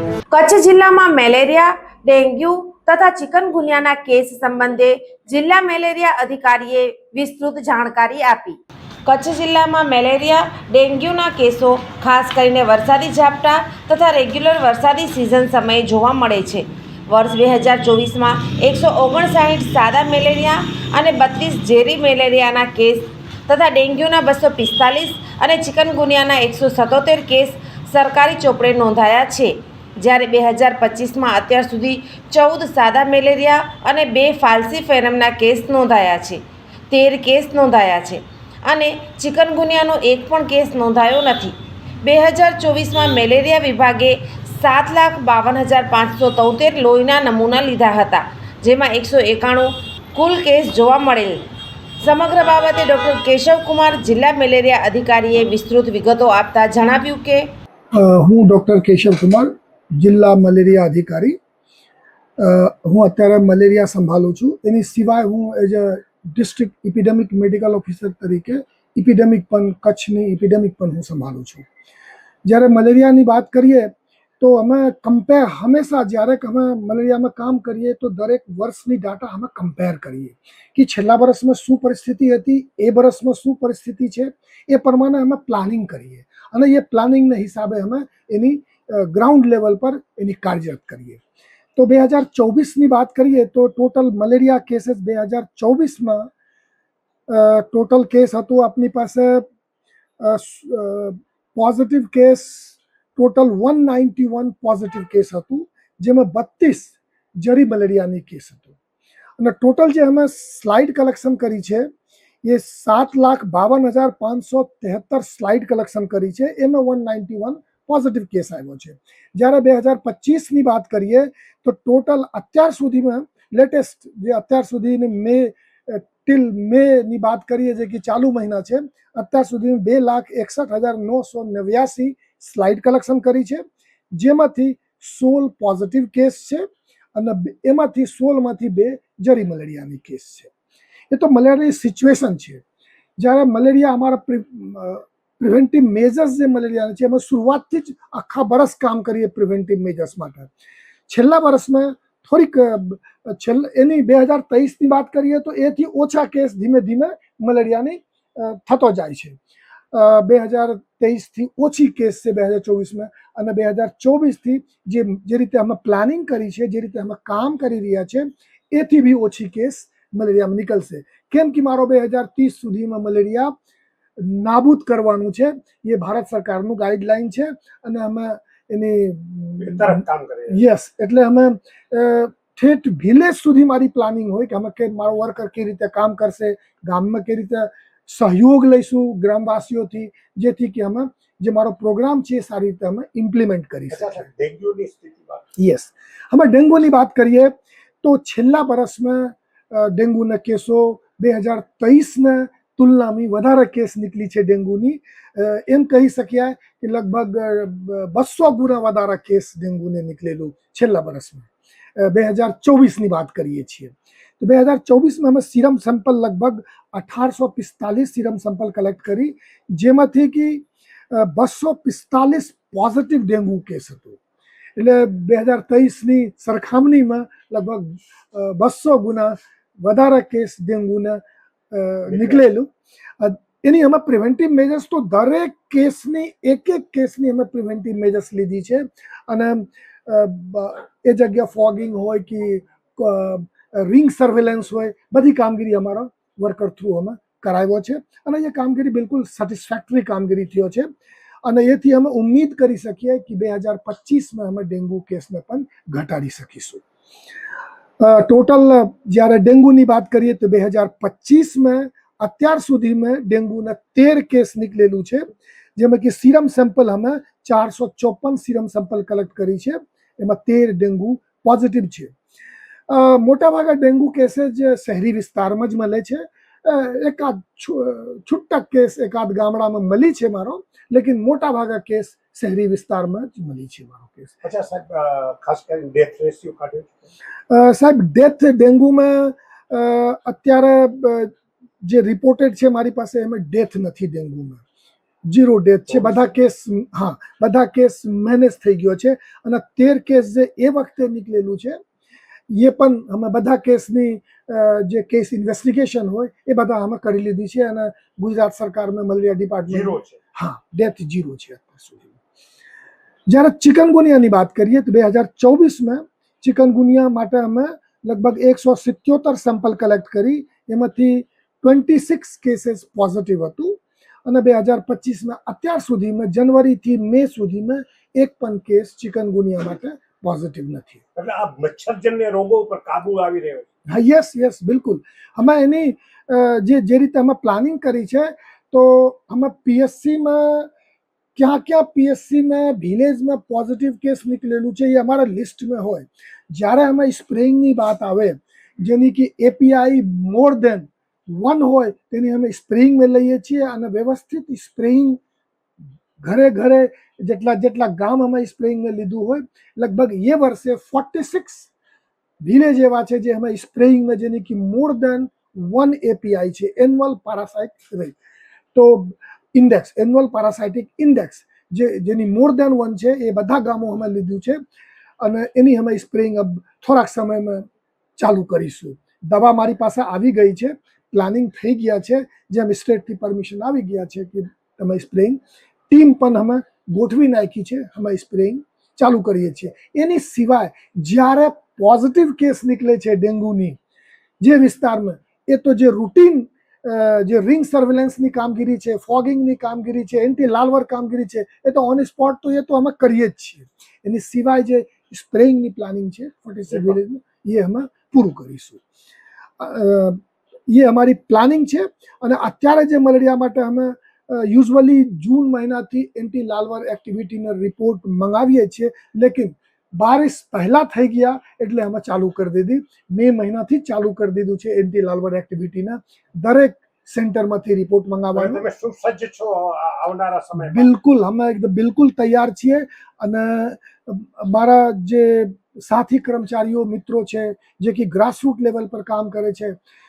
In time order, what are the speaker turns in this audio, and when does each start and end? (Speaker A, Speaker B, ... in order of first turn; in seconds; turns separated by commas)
Speaker A: 0.3-51.4, Speaker A: 52.0-57.5, Speaker B: 57.9-61.4, Speaker B: 62.4-71.7, Speaker B: 72.4-91.2, Speaker B: 91.8-96.3, Speaker B: 97.3-99.5, Speaker B: 100.2-108.8, Speaker B: 109.4-111.9, Speaker B: 112.4-140.5, Speaker B: 141.1-142.6, Speaker B: 143.2-150.5, Speaker B: 151.1-159.4, Speaker B: 159.9-173.6, Speaker B: 174.2-194.2, Speaker C: 179.6-180.6, Speaker C: 193.9-195.5, Speaker B: 195.6-224.2, Speaker B: 224.8-231.2, Speaker B: 231.7-250.9, Speaker C: 232.1-232.4, Speaker B: 251.4-256.8, Speaker B: 258.0-272.1, Speaker B: 272.9-284.4, Speaker C: 284.4-287.1, Speaker B: 287.5-291.3, Speaker B: 291.8-294.6, Speaker B: 295.3-301.8, Speaker C: 295.9-296.2, Speaker B: 302.5-312.2, Speaker C: 309.7-310.2, Speaker B: 313.3-331.0, Speaker C: 331.1-333.6, Speaker B: 333.9-340.7, Speaker B: 341.4-355.2, Speaker B: 356.2-361.7, Speaker B: 362.4-368.2, Speaker B: 368.7-374.6, Speaker B: 375.2-377.6, Speaker B: 378.2-393.8, Speaker B: 394.4-408.8, Speaker B: 409.6-428.6, Speaker C: 428.3-430.9, Speaker B: 430.6-439.8